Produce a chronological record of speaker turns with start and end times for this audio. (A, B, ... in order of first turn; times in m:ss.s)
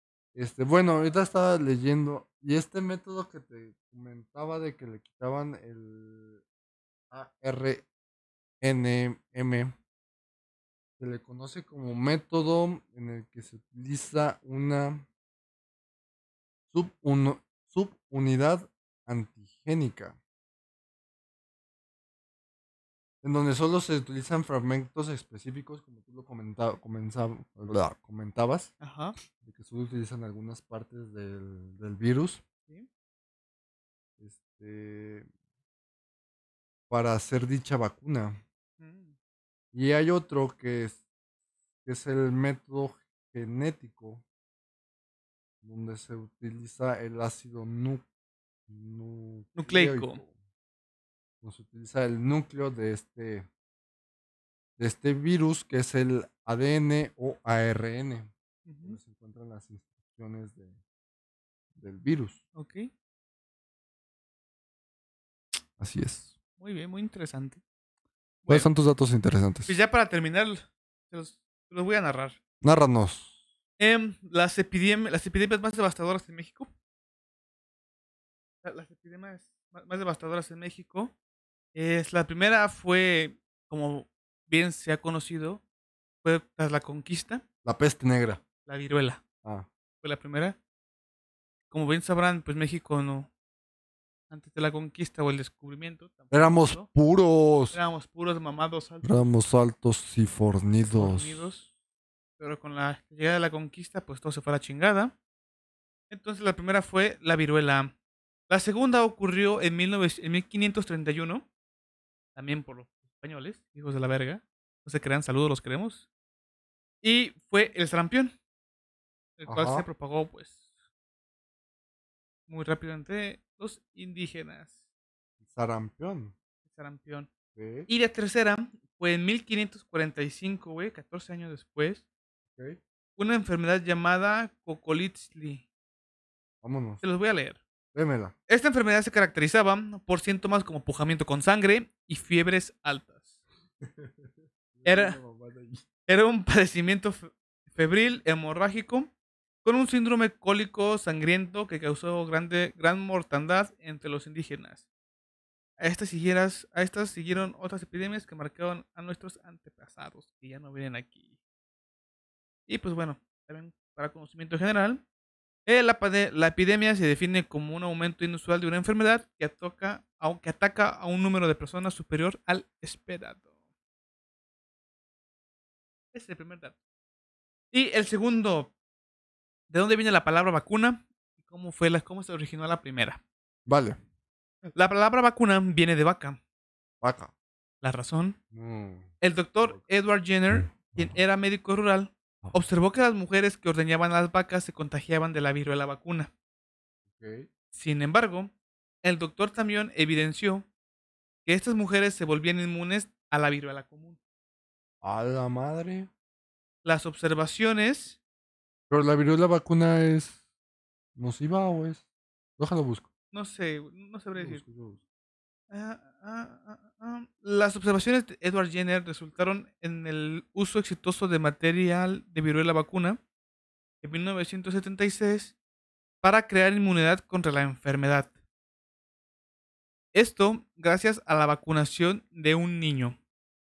0:00.3-0:06.4 A
0:07.1-0:07.8 A
0:08.6-0:09.7 A
0:11.0-0:15.1 A
0:16.7-0:20.2 A
0:23.2-0:28.7 A
0:28.8-0:29.1 B
0:29.4-0:32.4 A
0:34.2-0:35.3 A
0:36.9-0:38.4 A
0:38.8-0:39.1 B
0:39.7-0:41.0 A
0:41.8-0:44.2 A
0:45.6-0:48.0 A
0:48.7-0:50.3 A
0:49.6-0:50.2 B
0:51.4-0:53.5 A
0:54.8-0:58.3 A
0:58.6-0:59.0 B
0:58.8-1:00.8 A
1:01.7-1:02.4 A
1:02.5-1:02.9 B
1:05.8-1:06.3 A
1:06.6-1:07.6 B
1:08.4-1:08.7 B
1:08.5-1:09.7 A
1:09.7-1:12.4 B
1:12.6-1:13.4 A
1:13.8-1:16.7 B
1:18.6-1:21.1 B
1:21.7-1:25.6 B
1:26.2-1:27.4 B
1:27.6-1:28.4 A
1:28.6-1:29.2 B
1:29.4-1:29.7 A
1:30.0-1:30.6 B
1:31.7-1:33.3 B
1:34.3-1:36.9 B
1:36.3-1:37.8 A
1:37.7-1:39.3 B
1:39.0-1:41.5 A
1:40.9-1:41.7 B
1:42.4-1:45.1 B
1:46.1-1:47.9 B
1:48.5-1:51.4 B
1:52.4-1:56.0 B
1:57.0-1:58.3 B
1:59.4-2:00.7 B
1:59.5-1:59.9 A
2:02.5-2:04.8 B
2:05.4-2:06.3 A
2:06.6-2:07.3 B
2:07.5-2:07.9 A
2:07.9-2:12.0 B
2:12.5-2:12.8 A
2:13.2-2:15.6 B
2:16.6-2:17.0 A
2:17.0-2:17.6 B
2:17.9-2:18.3 A
2:18.5-2:23.3 B
2:23.8-2:25.9 A
2:24.8-2:25.2 B
2:26.1-2:29.1 B
2:29.6-2:34.8 B
2:35.8-2:41.3 B
2:42.7-2:45.0 B
2:45.6-2:53.4 B
2:56.1-2:56.7 B
2:57.7-2:58.7 B
2:59.7-3:03.2 B
3:03.6-3:04.0 A
3:04.7-3:06.4 B
3:07.0-3:07.3 A
3:07.8-3:08.4 B
3:08.5-3:09.8 A
3:09.2-3:16.3 B
3:10.5-3:11.2 A
3:17.1-3:17.5 A
3:17.7-3:18.5 B
3:19.0-3:20.6 B
3:21.4-3:24.2 B
3:25.0-3:26.1 A
3:26.8-3:28.2 B
3:28.9-3:30.4 A
3:31.2-3:32.0 A
3:32.6-3:33.1 A
3:33.3-3:34.6 B
3:34.4-3:35.0 A
3:35.7-3:43.2 B
3:44.0-3:45.5 B
3:46.2-3:48.3 B
3:50.1-3:53.2 B